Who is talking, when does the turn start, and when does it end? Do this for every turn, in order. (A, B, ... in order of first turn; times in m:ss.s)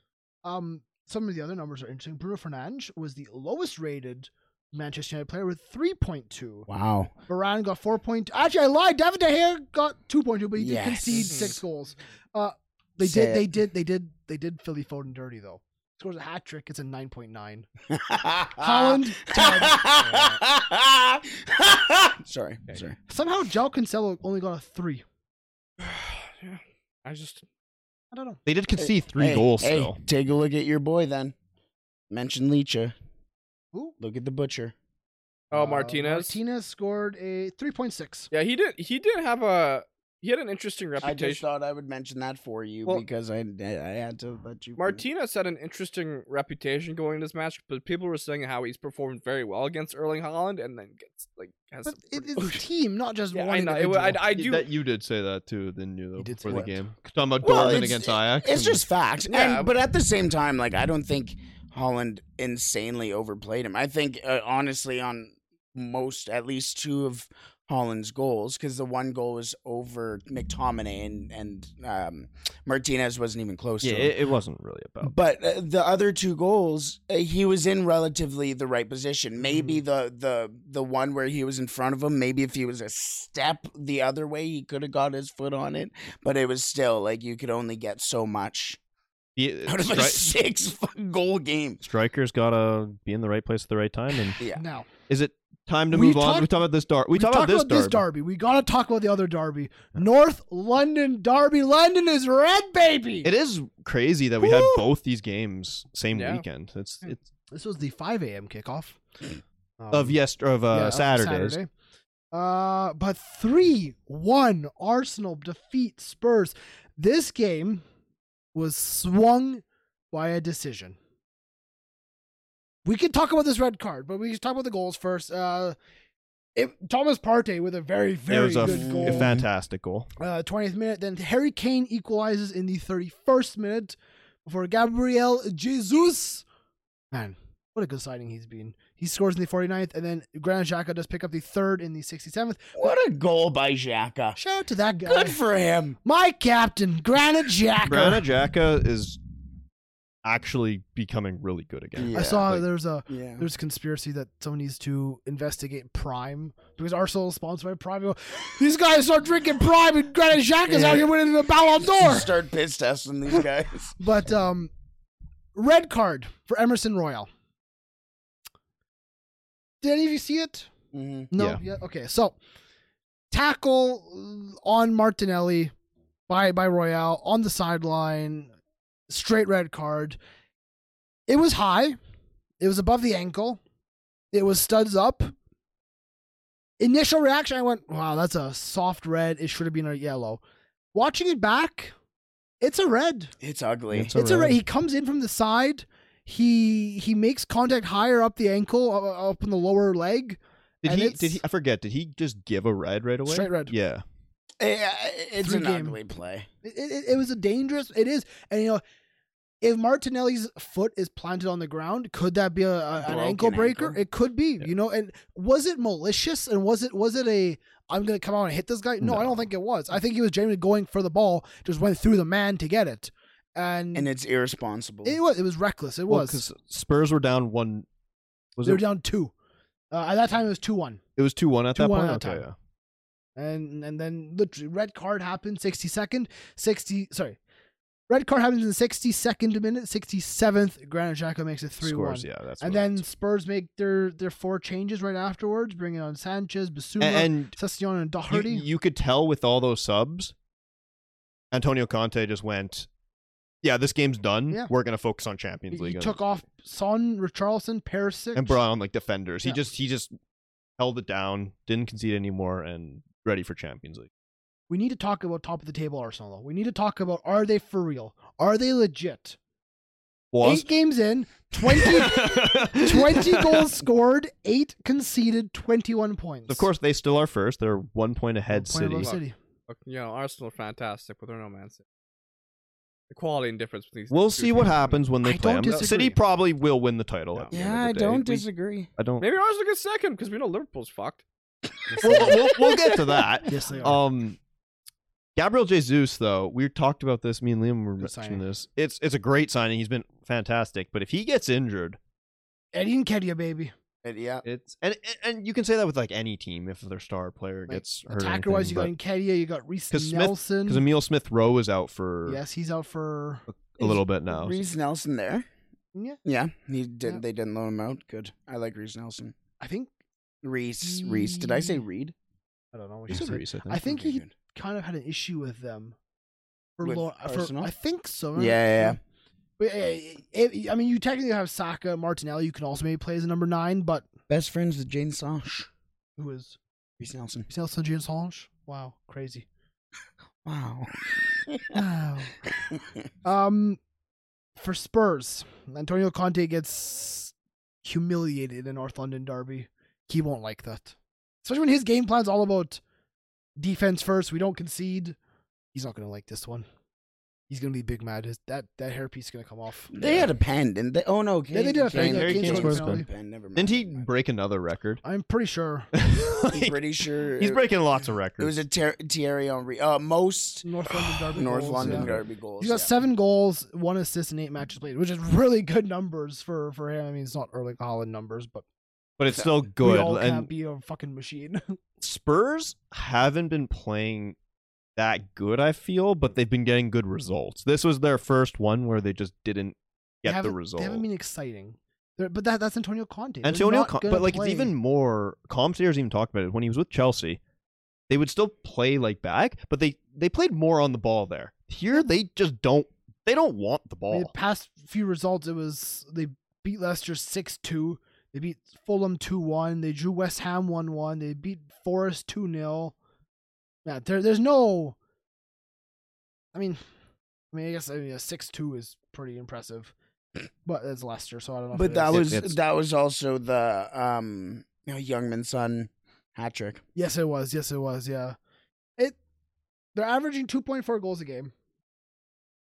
0:00.4-0:06.7 A
0:06.7-0:07.1 B
0:07.3-0:17.6 A
0:10.6-0:11.6 B
0:11.1-0:11.6 C
0:13.0-0:13.5 B
0:17.9-0:23.0 B
0:18.6-0:19.8 A
0:23.1-0:25.0 A
0:25.8-0:27.4 C
0:28.1-0:28.4 A
0:28.4-0:30.0 D
0:28.8-0:31.3 B
0:32.1-0:32.9 B
0:34.0-0:34.7 B
0:35.5-0:36.4 C
0:35.5-0:38.3 A
0:38.3-0:41.4 C
0:41.0-0:45.0 B
0:44.8-0:52.6 C
0:51.8-0:54.2 A
0:53.3-0:54.7 C
0:54.4-0:58.8 D
0:56.2-0:56.8 A
0:57.4-1:14.1 B
0:59.3-0:59.7 C
1:13.8-1:15.1 D
1:15.0-1:28.8 B
1:29.4-1:30.2 D
1:29.6-1:31.8 B
1:31.8-1:34.4 D
1:34.4-1:34.9 A
1:35.1-1:38.0 D
1:35.9-1:36.5 A
1:37.1-1:43.3 A
1:43.2-1:47.3 D
1:44.4-1:44.8 A
1:46.1-1:46.4 C
1:47.5-1:49.0 A
1:49.8-1:50.2 A
1:49.9-1:51.6 D
1:50.7-1:51.7 A
1:52.3-1:57.8 A
1:58.5-2:01.0 A
2:02.8-2:05.7 A
2:06.6-2:09.4 A
2:08.3-2:10.1 D
2:08.6-2:09.4 B
2:10.2-2:16.4 A
2:17.1-2:22.9 A
2:22.8-2:24.4 B
2:24.4-2:25.4 A
2:25.0-2:26.0 B
2:26.0-2:28.2 A
2:27.8-2:29.2 D
2:30.2-2:32.6 D
2:31.9-2:33.4 B
2:32.1-2:42.3 A
2:40.7-2:41.1 B
2:41.8-2:44.0 B
2:44.0-2:44.7 A
2:45.5-2:47.3 A
2:49.8-2:50.7 A
2:50.9-2:51.3 B
2:51.3-2:52.4 A
2:51.4-2:51.6 D
2:53.3-2:55.7 A
2:56.3-2:58.5 A
2:59.1-3:00.2 A
3:01.3-3:02.0 A
3:02.6-3:03.6 A
3:04.3-3:05.3 A
3:06.8-3:10.4 A
3:10.9-3:11.9 A
3:12.6-3:13.3 A
3:13.4-3:14.1 B
3:13.9-3:14.6 D
3:14.1-3:21.4 A
3:20.8-3:24.0 D
3:23.2-3:23.7 A
3:24.6-3:26.5 B
3:25.4-3:26.0 A
3:26.6-3:28.8 A
3:29.6-3:44.1 A
3:33.0-3:34.0 B
3:39.0-3:39.4 D
3:43.9-3:45.2 B
3:45.0-3:46.4 A
3:46.1-3:47.8 D
3:48.6-3:48.8 D
3:48.6-3:49.3 A
3:49.9-3:51.0 A
3:51.2-3:52.5 D
3:51.7-3:52.4 A
3:53.4-3:57.4 A
3:58.1-4:08.6 A
4:01.8-4:03.0 D
4:07.0-4:07.6 D
4:08.3-4:10.3 D
4:11.5-4:12.9 D
4:13.6-4:16.2 D
4:15.7-4:18.6 A
4:18.3-4:20.1 D
4:20.8-4:24.1 D
4:24.7-4:29.4 A
4:30.3-4:30.7 D
4:30.4-4:36.7 A
4:31.7-4:33.7 D
4:36.5-4:39.2 D
4:38.5-4:39.4 A
4:39.0-4:41.8 C
4:43.1-4:45.0 C
4:44.1-4:48.4 D
4:45.2-4:46.2 A
4:47.5-4:48.9 B
4:49.0-4:49.2 D
4:49.2-4:51.2 C
4:51.9-4:52.3 A
4:51.9-4:52.9 B
4:52.0-4:54.4 D
4:53.5-4:54.0 A
4:55.4-5:02.0 D
4:58.0-4:58.4 A
5:02.7-5:03.7 A
5:04.0-5:04.4 B
5:04.4-5:08.9 D
5:07.7-5:10.8 A
5:09.9-5:12.4 D
5:12.2-5:13.4 A
5:13.5-5:14.6 D
5:13.8-5:15.5 B
5:16.2-5:19.3 B
5:19.6-5:19.9 A
5:20.4-5:22.1 B
5:20.8-5:21.8 A
5:22.7-5:26.0 A
5:23.1-5:23.8 D
5:23.8-5:24.3 B
5:26.8-5:29.0 A
5:26.8-5:27.7 B
5:28.3-5:29.0 B
5:29.6-5:34.0 A
5:34.3-5:35.7 B
5:36.2-5:36.6 A
5:37.0-5:37.5 B
5:37.5-5:39.4 A
5:40.4-5:41.6 B
5:41.7-5:42.4 A
5:43.2-5:43.8 A
5:44.6-5:47.3 A
5:47.8-5:52.8 A
5:53.6-5:55.2 A
5:55.7-5:56.6 A
5:57.5-5:59.9 A
5:59.9-6:04.1 B
6:01.5-6:03.0 A
6:01.9-6:05.0 D
6:05.0-6:05.9 A
6:05.9-6:06.8 D
6:06.5-6:07.7 B
6:07.4-6:08.6 D
6:08.4-6:12.9 B
6:10.6-6:12.1 A
6:11.8-6:12.2 D
6:12.6-6:18.6 A
6:19.2-6:20.5 D
6:19.8-6:21.8 A
6:22.0-6:24.4 D
6:25.0-6:31.0 D
6:30.2-6:34.7 A
6:33.4-6:37.4 D
6:38.1-6:44.3 D
6:44.1-6:52.9 A
6:53.8-6:55.0 A
6:56.5-6:56.8 A
6:57.5-6:59.9 A
7:00.6-7:02.3 A
7:01.7-7:06.8 B
7:02.1-7:02.6 D
7:06.9-7:08.4 A
7:09.9-7:11.5 A